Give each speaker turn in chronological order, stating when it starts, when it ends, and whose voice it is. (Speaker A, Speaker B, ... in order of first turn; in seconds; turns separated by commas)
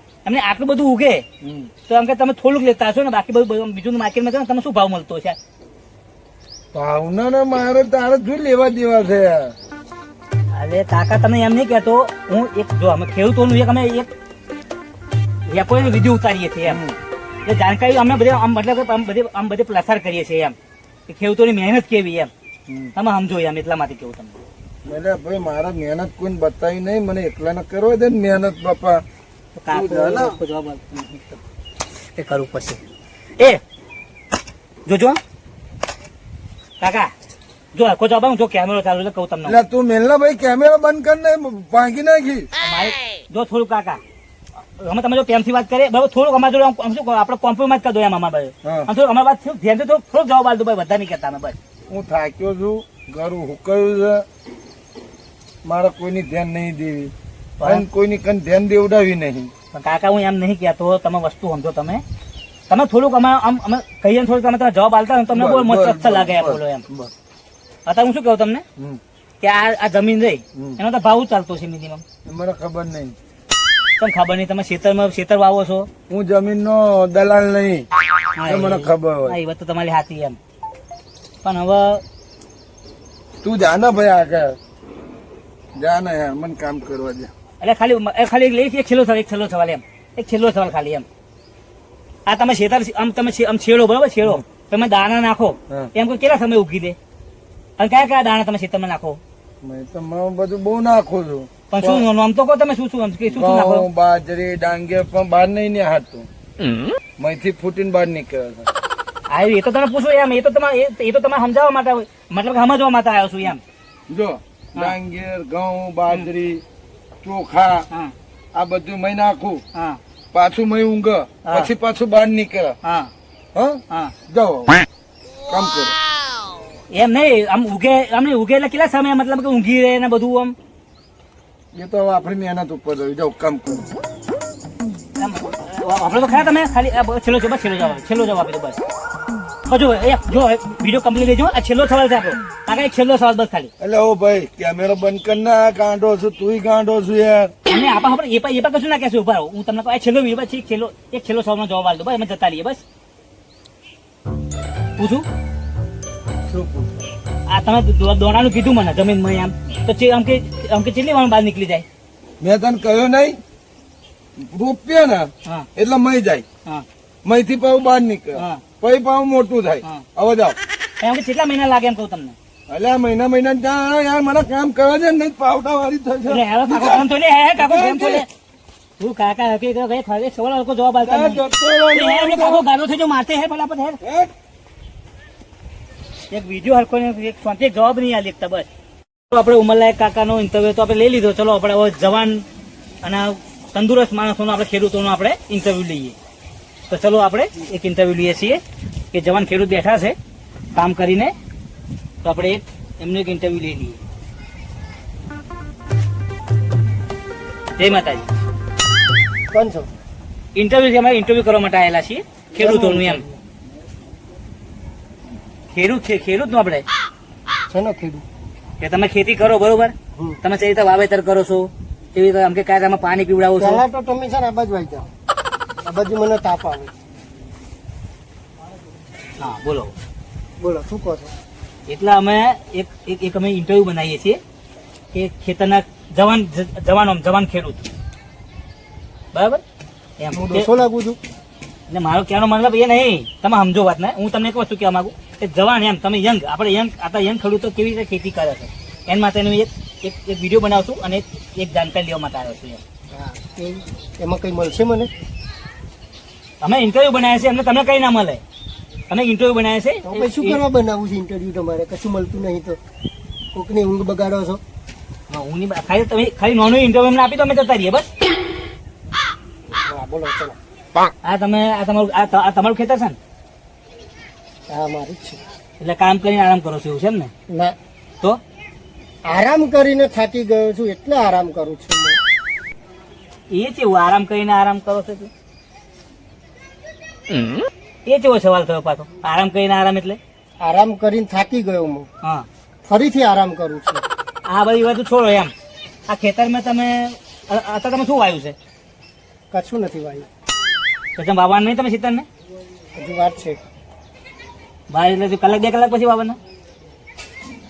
Speaker A: 0.2-1.2, Speaker B: 1.4-1.7, Speaker A: 1.9-5.4, Speaker B: 6.7-9.5, Speaker A: 10.5-14.1, Speaker A: 15.5-16.8, Speaker B: 16.6-16.9, Speaker A: 17.4-20.5, Speaker A: 21.1-22.3, Speaker B: 22.7-22.9, Speaker A: 22.9-24.4, Speaker B: 24.8-29.0, Speaker A: 29.6-31.4, Speaker B: 29.7-30.4, Speaker A: 32.1-32.8, Speaker A: 34.9-35.2, Speaker A: 36.8-37.1, Speaker A: 37.7-39.6, Speaker B: 39.5-42.5, Speaker A: 42.6-44.0, Speaker A: 44.8-51.6, Speaker B: 48.6-48.9, Speaker B: 51.9-54.2, Speaker B: 55.6-59.5, Speaker A: 57.6-57.8, Speaker A: 59.7-62.0, Speaker A: 62.7-66.8, Speaker B: 65.3-67.1, Speaker A: 67.8-68.6, Speaker A: 69.4-72.0, Speaker B: 72.2-73.2, Speaker A: 74.0-75.9, Speaker B: 76.1-77.9, Speaker A: 78.3-80.4, Speaker B: 78.5-79.4, Speaker A: 81.4-82.0, Speaker B: 83.4-84.6, Speaker B: 85.8-87.3, Speaker A: 87.6-91.0, Speaker A: 92.3-97.0, Speaker A: 97.8-99.2, Speaker B: 99.6-102.0, Speaker A: 101.7-103.9, Speaker B: 103.3-106.3, Speaker B: 107.2-108.7, Speaker A: 109.3-113.6, Speaker B: 114.1-116.6, Speaker B: 117.2-117.8, Speaker B: 118.5-119.6, Speaker A: 119.7-120.0, Speaker B: 120.3-122.8, Speaker A: 121.4-121.7, Speaker A: 122.8-123.1, Speaker B: 123.5-124.8, Speaker A: 123.9-124.1, Speaker B: 125.5-125.9, Speaker A: 126.9-130.5, Speaker B: 131.7-133.9, Speaker A: 135.2-138.8, Speaker A: 139.7-143.7, Speaker B: 143.8-147.5, Speaker A: 147.7-152.8, Speaker A: 155.0-155.2, Speaker B: 156.5-157.0, Speaker A: 157.5-161.8, Speaker B: 162.4-163.4, Speaker B: 164.4-166.4, Speaker B: 167.2-170.6, Speaker A: 168.3-168.6, Speaker A: 171.0-172.3, Speaker B: 172.7-177.1, Speaker A: 176.3-178.3, Speaker B: 177.6-178.2, Speaker A: 179.0-184.0, Speaker B: 181.0-182.6, Speaker B: 184.0-184.3, Speaker A: 186.3-188.7, Speaker A: 189.3-192.4, Speaker A: 193.0-196.2, Speaker A: 196.9-198.6, Speaker A: 199.1-200.2, Speaker A: 200.7-201.3, Speaker A: 202.2-204.0, Speaker A: 207.8-208.2, Speaker C: 209.5-209.9, Speaker A: 210.5-213.2, Speaker C: 212.6-213.2, Speaker A: 215.7-216.8, Speaker C: 217.7-218.2, Speaker A: 218.8-223.8, Speaker C: 223.6-225.1, Speaker C: 225.8-226.9, Speaker A: 229.4-229.9, Speaker C: 230.6-231.3, Speaker A: 231.9-234.4, Speaker A: 235.1-237.9, Speaker A: 239.3-239.6, Speaker A: 240.2-240.7, Speaker C: 240.3-241.2, Speaker A: 241.9-252.8, Speaker C: 253.1-255.1, Speaker A: 256.6-258.4, Speaker A: 259.1-260.6, Speaker C: 260.0-262.8, Speaker C: 263.5-264.6, Speaker A: 265.3-268.1, Speaker C: 269.9-270.6, Speaker A: 271.2-273.2, Speaker C: 274.7-275.4, Speaker A: 275.8-277.3, Speaker C: 277.5-277.7, Speaker C: 279.2-282.2, Speaker A: 283.5-285.3, Speaker A: 288.0-290.2, Speaker C: 290.6-292.1, Speaker C: 292.9-294.0, Speaker A: 294.4-295.5, Speaker A: 296.1-298.6, Speaker C: 299.5-300.3, Speaker A: 301.1-302.2, Speaker C: 302.9-303.6, Speaker A: 304.9-306.4